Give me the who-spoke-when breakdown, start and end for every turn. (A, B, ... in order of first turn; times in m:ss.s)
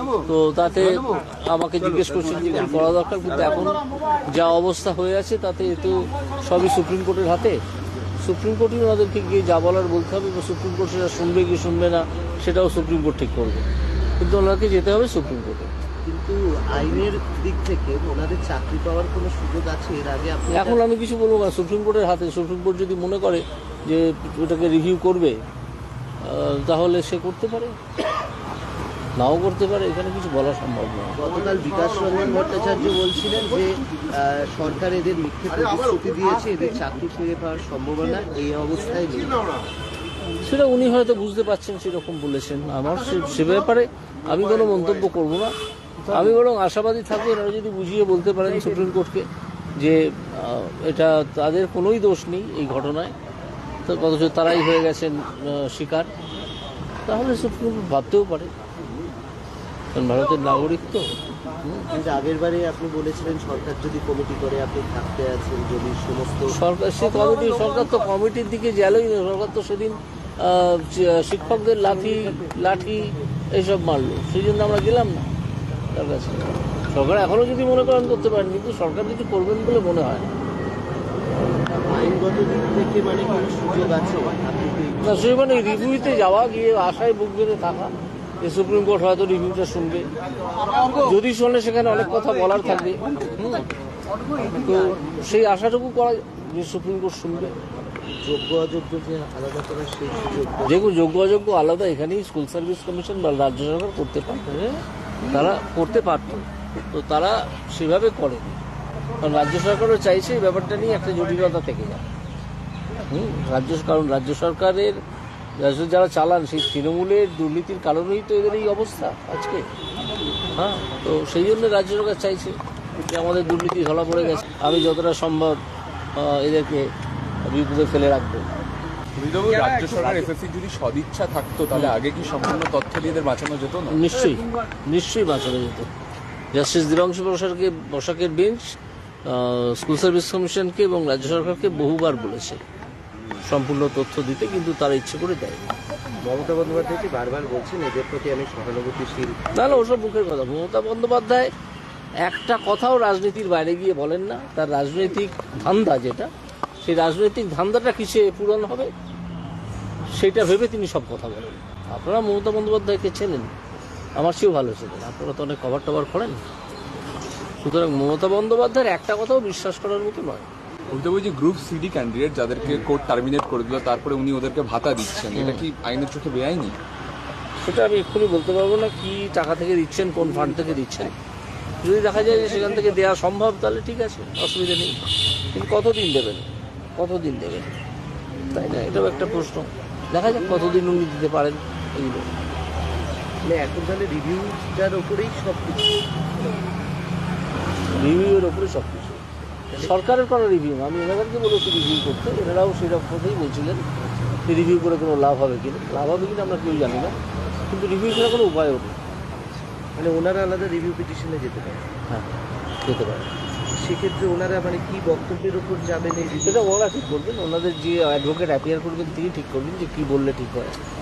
0:00.2-0:07.6 A
0:08.2-0:13.6 A
0:14.2-0:15.7 A
0:16.0-0:20.8 B
0:20.5-0:25.4 A
0:26.2-0:27.8 A
0:29.2-0:31.2 A
0:31.2-0:39.5 B
0:40.4-0:45.5 A
0:46.1-0:53.1 A
0:53.8-0:56.1 A
0:57.1-0:58.5 A
0:59.9-1:01.1 A
1:01.9-1:06.5 B
1:06.5-1:15.3 A
1:15.9-1:20.3 A
1:21.8-1:25.4 B
1:25.0-1:30.1 A
1:30.9-1:33.7 A
1:34.4-1:37.5 A
1:38.2-1:40.9 B
1:40.6-1:48.6 A
1:49.2-1:52.0 A
1:53.1-1:55.0 A
1:55.6-1:59.7 A
2:00.5-2:05.6 A
2:06.1-2:06.9 A
2:07.4-2:08.6 A
2:09.2-2:14.0 C
2:13.9-2:15.9 A
2:16.5-2:22.6 A
2:23.4-2:25.6 A
2:26.2-2:29.4 B
2:29.5-2:31.5 A
2:32.2-2:36.3 A
2:36.8-2:38.9 A
2:40.1-2:43.5 A
2:44.2-2:46.4 A
2:47.6-2:50.5 A
2:50.9-2:56.8 C
2:55.3-2:55.7 A
2:57.6-3:01.1 A
3:01.8-3:05.0 A
3:05.5-3:07.7 A
3:08.5-3:12.3 A
3:13.4-3:16.0 B
3:17.9-3:19.2 A
3:19.7-3:20.0 B
3:19.8-3:23.8 A
3:24.4-3:29.0 A
3:30.0-3:31.9 B
3:32.8-3:33.3 A
3:33.7-3:36.7 B
3:36.4-3:40.8 A